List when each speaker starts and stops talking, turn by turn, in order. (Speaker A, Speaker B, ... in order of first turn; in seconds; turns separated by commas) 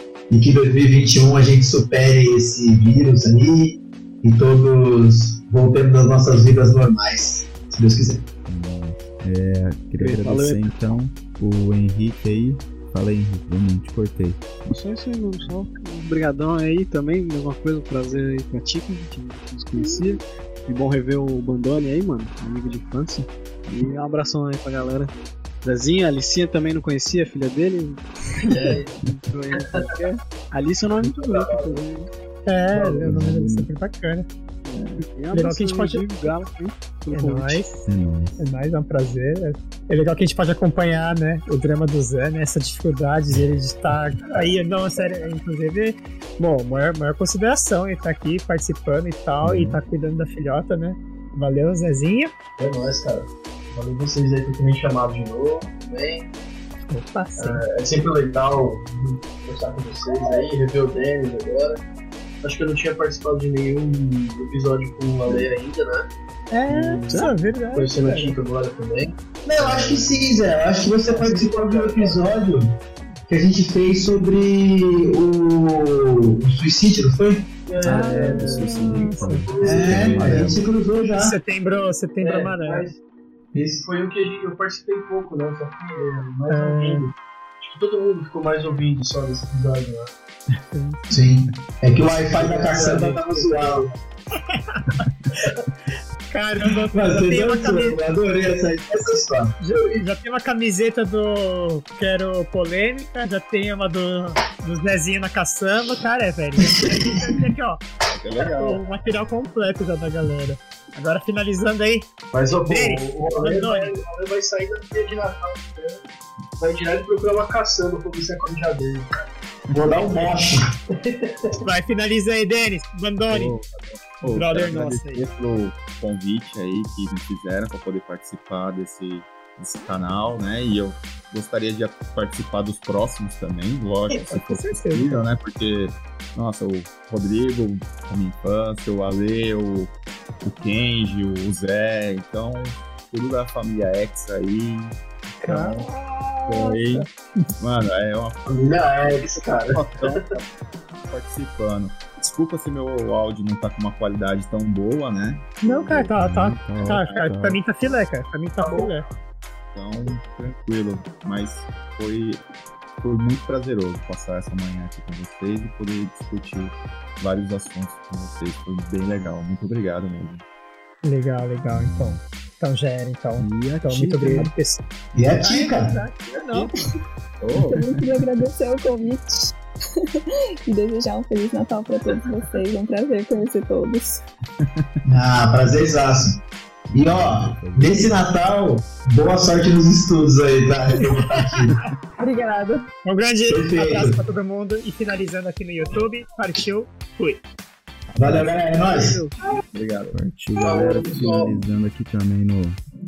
Speaker A: 0.3-8.2, Speaker B: 8.5-14.6, Speaker C: 10.0-10.9, Speaker C: 14.7-25.1, Speaker C: 25.6-28.0, Speaker D: 28.5-29.9, Speaker E: 28.5-28.8, Speaker C: 29.5-32.1, Speaker A: 31.0-31.8, Speaker E: 32.5-34.3, Speaker B: 32.8-33.7, Speaker C: 34.7-37.6, Speaker E: 35.3-36.3, Speaker E: 37.1-37.8, Speaker B: 37.8-38.5, Speaker E: 38.4-52.3, Speaker D: 44.4-45.1, Speaker B: 49.4-49.8, Speaker D: 52.6-56.3, Speaker E: 56.9-57.6, Speaker D: 57.4-61.8, Speaker D: 62.4-66.1, Speaker E: 66.5-68.4, Speaker D: 66.7-70.2, Speaker A: 69.4-72.7, Speaker D: 71.0-72.3, Speaker A: 73.3-77.5, Speaker D: 77.7-80.6, Speaker B: 77.8-80.6, Speaker E: 77.9-79.5, Speaker A: 79.6-81.3, Speaker E: 81.2-82.9, Speaker D: 82.2-83.0, Speaker A: 83.5-83.8, Speaker D: 83.5-90.1, Speaker E: 86.5-87.1, Speaker E: 90.7-91.1, Speaker A: 91.1-94.0, Speaker D: 92.3-93.9, Speaker E: 94.5-95.0, Speaker E: 96.3-98.0, Speaker A: 96.9-100.0, Speaker E: 99.6-107.8, Speaker A: 106.8-107.4, Speaker F: 108.1-109.1, Speaker E: 108.4-112.1, Speaker D: 112.3-116.0, Speaker E: 112.6-114.0, Speaker D: 116.6-119.1, Speaker A: 119.7-120.6, Speaker D: 120.9-121.6, Speaker E: 121.6-123.5, Speaker F: 123.3-145.9, Speaker E: 124.3-125.2, Speaker E: 134.1-135.2, Speaker E: 145.4-147.5, Speaker F: 146.5-147.1, Speaker F: 147.6-148.8, Speaker D: 148.4-150.3, Speaker F: 149.5-156.1, Speaker E: 155.6-159.1, Speaker B: 156.2-157.6, Speaker F: 156.7-157.3, Speaker D: 158.6-158.9, Speaker F: 159.7-162.4, Speaker F: 163.0-170.4, Speaker E: 171.0-174.8, Speaker B: 171.7-172.2, Speaker C: 173.4-174.5, Speaker A: 175.1-175.9, Speaker E: 175.4-176.7, Speaker F: 177.4-177.9, Speaker G: 177.7-179.6, Speaker G: 180.1-184.2, Speaker D: 182.1-182.4, Speaker B: 184.6-185.0, Speaker A: 185.1-186.4, Speaker A: 186.9-191.7, Speaker B: 187.0-188.2, Speaker E: 191.0-191.2, Speaker E: 192.2-197.4, Speaker A: 193.4-194.2, Speaker A: 198.2-199.2, Speaker C: 198.4-199.3, Speaker F: 199.7-200.2, Speaker B: 200.1-202.8, Speaker D: 200.5-201.6